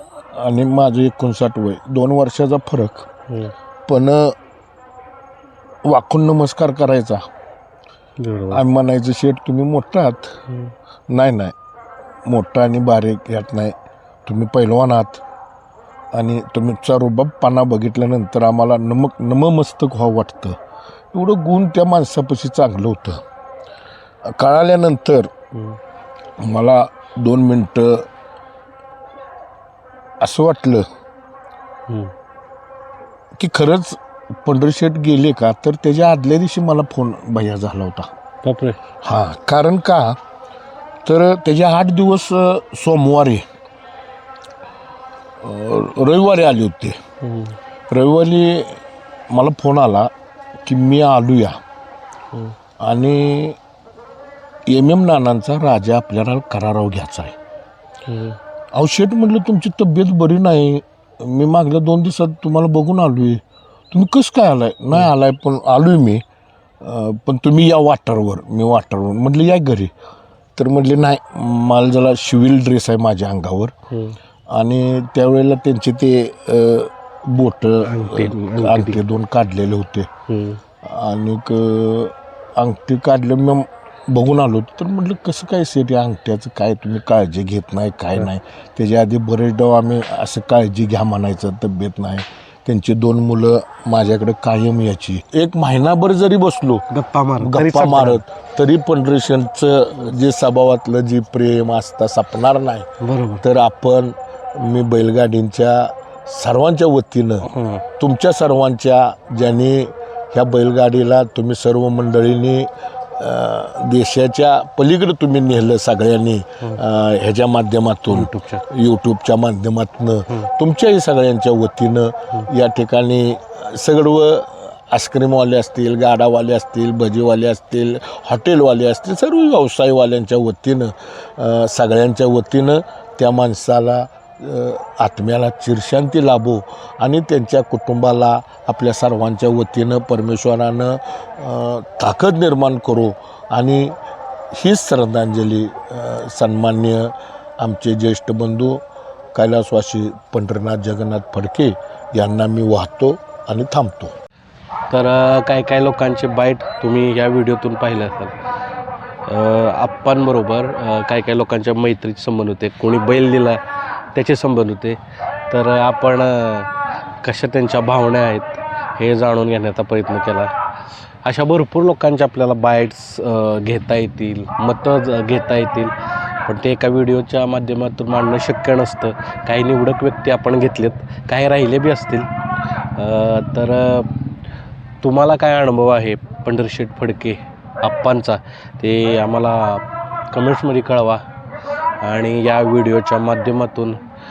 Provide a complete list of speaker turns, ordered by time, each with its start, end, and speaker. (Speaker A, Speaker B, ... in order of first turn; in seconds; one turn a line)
Speaker A: 0.3-3.1
Speaker B: 3.3-3.5
Speaker A: 3.9-4.3
Speaker A: 5.8-7.2
Speaker B: 8.2-8.6
Speaker A: 8.5-10.3
Speaker A: 11.1-11.5
Speaker A: 12.3-13.7
Speaker A: 14.2-15.2
Speaker A: 16.1-20.6
Speaker A: 21.1-23.2
Speaker A: 24.2-25.3
Speaker A: 26.4-28.1
Speaker A: 30.2-30.8
Speaker A: 33.4-38.1
Speaker B: 38.4-38.8
Speaker A: 39.0-40.2
Speaker A: 41.0-43.4
Speaker A: 45.4-47.0
Speaker B: 47.2-47.5
Speaker A: 47.9-48.8
Speaker A: 49.3-50.1
Speaker A: 50.6-51.6
Speaker A: 52.8-53.6
Speaker A: 54.7-57.4
Speaker B: 58.1-58.4
Speaker A: 58.7-63.4
Speaker A: 63.9-66.2
Speaker A: 66.8-69.9
Speaker A: 70.6-73.7
Speaker B: 73.9-74.2
Speaker A: 74.5-80.1
Speaker B: 77.8-79.0
Speaker B: 80.3-80.6
Speaker A: 80.8-96.8
Speaker B: 96.9-98.2
Speaker A: 97.4-102.9
Speaker B: 103.0-103.4
Speaker A: 103.4-107.5
Speaker B: 107.4-107.8
Speaker A: 108.0-144.0
Speaker B: 118.1-118.6
Speaker A: 144.5-148.8
Speaker A: 149.3-154.1
Speaker B: 154.9-158.3
Speaker B: 159.3-163.6
Speaker B: 164.1-165.0
Speaker B: 165.5-166.7
Speaker B: 167.2-170.5
Speaker B: 171.2-175.9
Speaker B: 176.4-182.3
Speaker B: 182.9-184.1
Speaker B: 185.0-191.2
Speaker B: 192.0-194.0